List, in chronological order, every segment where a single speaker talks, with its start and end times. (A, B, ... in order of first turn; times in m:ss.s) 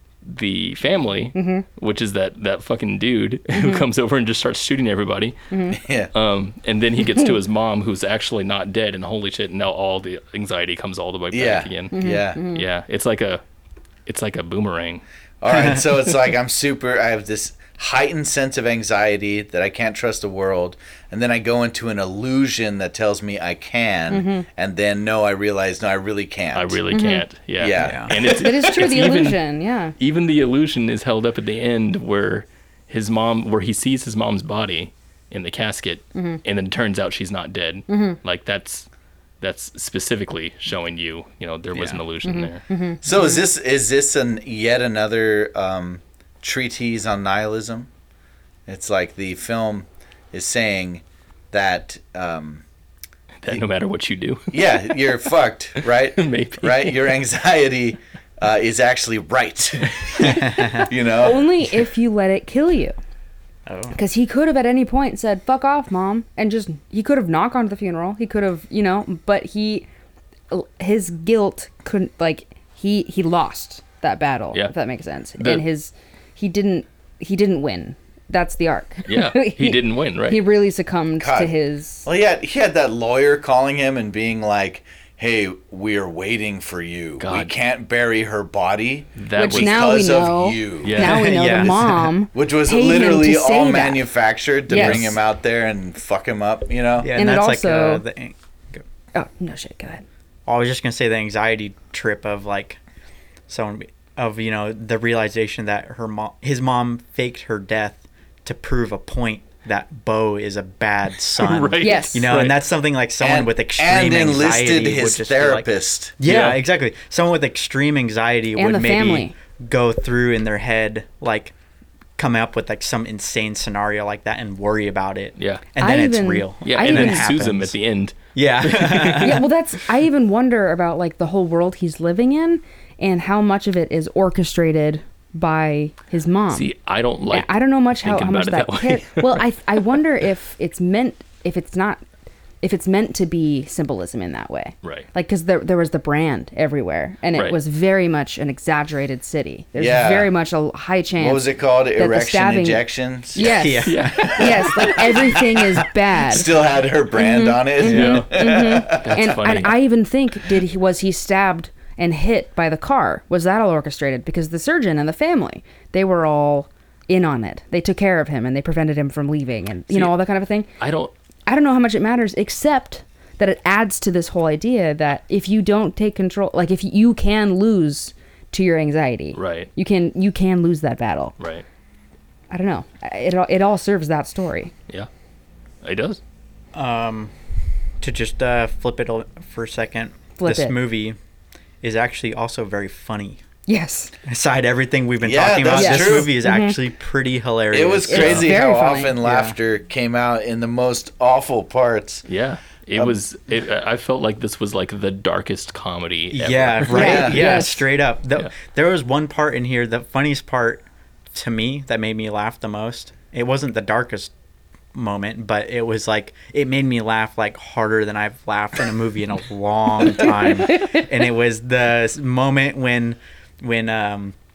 0:00.2-0:05.4 A
0:01.3-0:01.6 B
0:03.5-0:03.8 B
0:05.5-0:05.8 B
0:05.7-0:06.1 C
0:06.1-0:13.4 A
0:11.3-0:12.5 C
0:11.9-0:12.6 B
0:14.0-0:15.0 A
0:15.4-0:26.8 C
0:15.5-0:15.8 D
0:24.1-0:24.4 B
0:26.5-0:29.4 A
0:26.9-0:27.2 B
0:27.6-0:28.9 C
0:27.8-0:28.1 D
0:28.2-0:29.9 B
0:30.0-0:38.9 A
0:36.1-0:36.4 B
0:37.9-0:38.2 B
0:39.4-0:42.6 A
0:42.2-0:43.4 B
0:43.0-0:47.9 C
0:48.7-0:52.6 C
0:53.4-0:55.0 A
0:54.5-1:01.5 C
0:55.8-0:57.1 A
1:00.2-1:00.8 D
1:00.6-1:02.9 B
1:03.7-1:04.0 D
1:03.9-1:09.8 B
1:10.5-1:22.0 B
1:15.4-1:15.6 A
1:19.1-1:20.4 A
1:21.2-1:21.5 C
1:22.0-1:31.0 C
1:27.2-1:27.5 A
1:29.2-1:30.0 A
1:29.3-1:34.0 B
1:30.8-1:31.5 A
1:31.0-1:32.1 D
1:32.3-1:37.1 C
1:34.7-1:35.1 B
1:34.7-1:35.2 A
1:37.0-1:38.8 D
1:37.1-1:38.0 B
1:39.1-1:40.0 B
1:40.4-1:42.8 D
1:43.5-1:55.7 D
1:51.4-1:52.6 A
1:51.8-1:52.2 B
1:53.2-1:56.1 C
1:56.2-2:01.5 D
1:56.2-1:56.6 A
1:58.6-1:59.3 B
2:02.2-2:07.8 D
2:05.4-2:05.6 A
2:05.8-2:07.3 B
2:06.6-2:09.4 A
2:08.3-2:09.4 D
2:09.2-2:16.7 B
2:16.5-2:19.9 A
2:17.3-2:22.0 B
2:22.6-2:32.8 B
2:29.8-2:30.3 C
2:31.2-2:35.4 C
2:33.3-2:36.5 B
2:33.4-2:34.5 D
2:33.8-2:34.9 A
2:36.2-2:39.2 C
2:37.1-2:50.7 B
2:37.8-2:38.3 A
2:37.8-2:38.2 D
2:38.9-2:39.8 A
2:50.8-2:51.1 A
2:51.5-3:01.3 B
2:59.3-2:59.7 A
3:01.4-3:01.6 A
3:02.5-3:04.7 B
3:05.8-3:06.2 A
3:06.7-3:07.3 D
3:08.0-3:11.2 D
3:10.4-3:10.8 B
3:11.8-3:13.4 D
3:13.7-3:14.1 B
3:14.2-3:18.5 D
3:15.2-3:16.3 C
3:15.7-3:16.8 B
3:17.7-3:22.2 C
3:18.0-3:19.2 B
3:18.2-3:18.5 A
3:19.2-3:19.6 D
3:22.3-3:27.5 A
3:26.3-3:34.3 D
3:26.9-3:27.8 B
3:26.9-3:27.6 C
3:34.9-3:44.3 D
3:40.7-3:41.0 B